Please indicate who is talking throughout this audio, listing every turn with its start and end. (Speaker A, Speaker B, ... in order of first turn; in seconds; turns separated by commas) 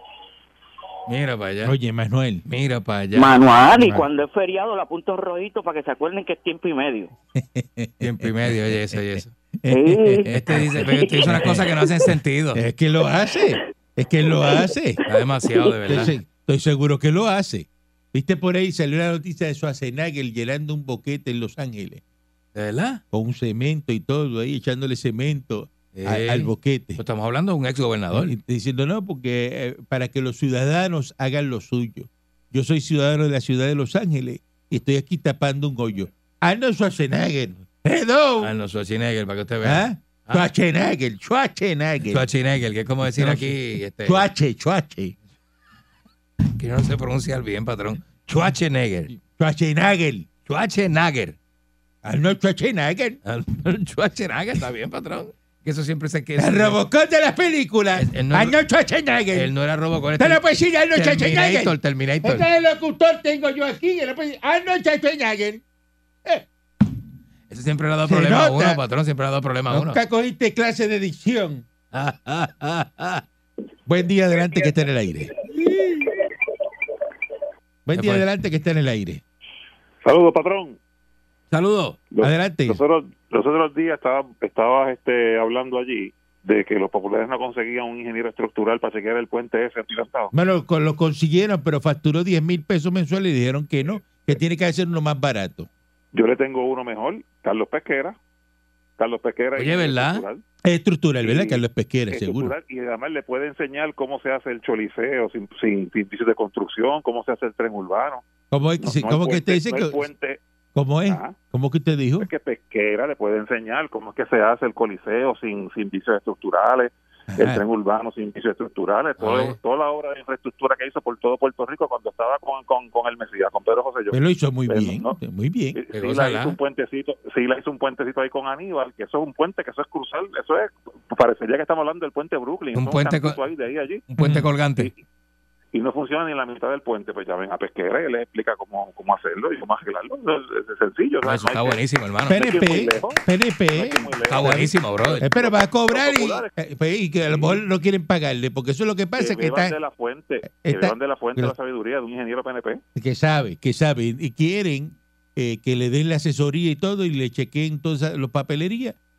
Speaker A: 1.1-1.7, Speaker B: 1.6-2.4, Speaker A: 2.5-3.4, Speaker C: 3.1-7.1, Speaker B: 7.3-9.0, Speaker A: 8.0-9.3, Speaker B: 9.6-15.0, Speaker C: 9.7-11.5, Speaker A: 10.3-12.6, Speaker C: 14.3-14.7, Speaker A: 15.1-16.1, Speaker B: 15.9-22.0, Speaker A: 22.5-23.0, Speaker B: 23.1-27.0, Speaker A: 25.9-28.3, Speaker B: 28.1-38.5, Speaker A: 38.4-40.5, Speaker B: 39.6-42.2, Speaker A: 42.1-44.2, Speaker B: 43.2-45.1, Speaker A: 46.6-49.1, Speaker B: 49.3-50.3, Speaker A: 50.5-51.4, Speaker B: 52.0-53.2, Speaker A: 53.2-56.8, Speaker B: 56.4-59.5, Speaker A: 57.9-58.6, Speaker A: 59.3-60.4, Speaker B: 60.2-65.6, Speaker A: 60.9-62.5, Speaker A: 67.5-70.0, Speaker B: 68.0-68.8, Speaker B: 69.7-71.6, Speaker A: 71.9-73.2, Speaker B: 73.9-76.1, Speaker B: 77.8-79.2, Speaker A: 77.9-78.2, Speaker D: 80.0-80.8, Speaker A: 81.5-82.0, Speaker D: 82.1-90.3, Speaker B: 82.2-82.8, Speaker B: 90.3-95.7, Speaker D: 96.1-98.2, Speaker D: 99.0-100.4, Speaker A: 99.5-100.2, Speaker B: 100.6-102.5, Speaker D: 101.2-108.2, Speaker B: 108.5-110.0, Speaker D: 108.8-110.4, Speaker B: 110.7-112.3, Speaker D: 111.0-111.3, Speaker D: 112.2-125.2, Speaker B: 117.3-117.6, Speaker A: 119.2-119.5, Speaker B: 124.1-125.8, Speaker D: 125.7-134.0, Speaker A: 125.9-126.6, Speaker A: 132.7-133.4, Speaker A: 134.1-134.9, Speaker B: 134.2-134.4, Speaker D: 135.7-146.5, Speaker A: 141.2-142.6, Speaker B: 142.3-149.7, Speaker A: 144.3-145.2, Speaker D: 147.3-147.6, Speaker D: 149.2-152.8, Speaker B: 150.5-151.5, Speaker B: 152.9-159.0